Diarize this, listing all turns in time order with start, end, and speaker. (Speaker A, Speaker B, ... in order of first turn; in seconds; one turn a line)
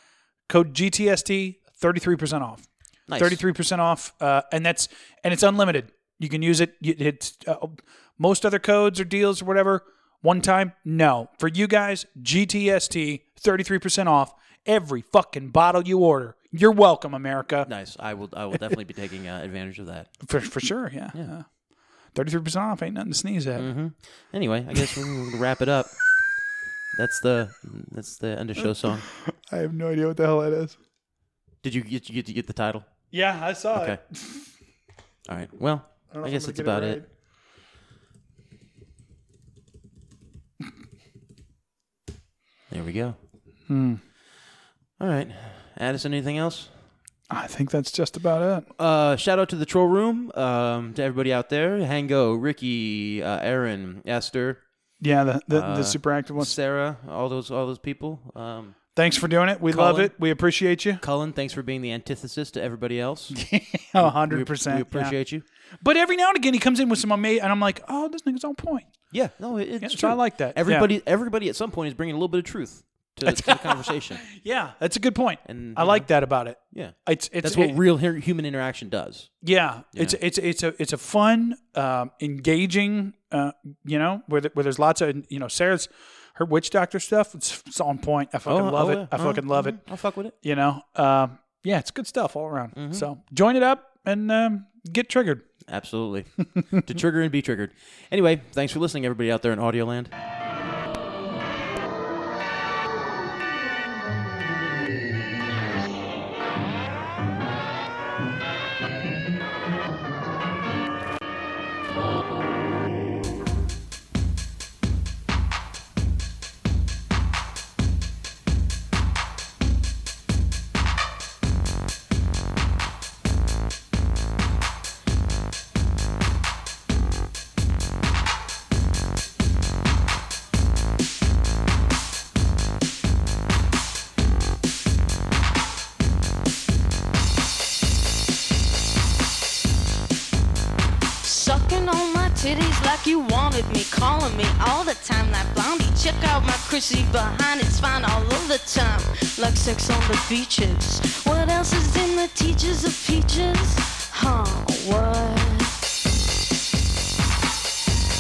Speaker A: 0.5-17.7
Speaker B: 3.1-3.4
Speaker B: 17.6-20.1
Speaker A: 20.2-21.5
Speaker A: 22.1-23.7
Speaker B: 23.6-25.9
Speaker B: 26.9-29.1
Speaker A: 28.6-30.8
Speaker B: 31.6-32.9
Speaker A: 33.1-34.4
Speaker B: 33.7-34.0
Speaker B: 35.3-37.0
Speaker A: 36.1-37.1
Speaker B: 42.7-43.2
Speaker A: 43.7-44.0
Speaker B: 45.0-46.7
Speaker A: 47.3-48.7
Speaker B: 48.8-54.6
Speaker A: 55.0-56.5
Speaker B: 55.5-58.8
Speaker A: 59.0-61.0
Speaker B: 59.7-60.1
Speaker B: 61.0-63.4
Speaker A: 63.3-65.2
Speaker B: 64.0-65.5
Speaker A: 65.8-68.9
Speaker B: 69.1-74.2
Speaker A: 69.8-70.9
Speaker A: 73.2-77.8
Speaker B: 75.5-76.1
Speaker B: 76.7-79.3
Speaker A: 79.4-89.8
Speaker B: 88.5-90.3
Speaker A: 90.4-95.5
Speaker B: 92.8-93.1
Speaker B: 95.7-100.1
Speaker C: 141.2-155.8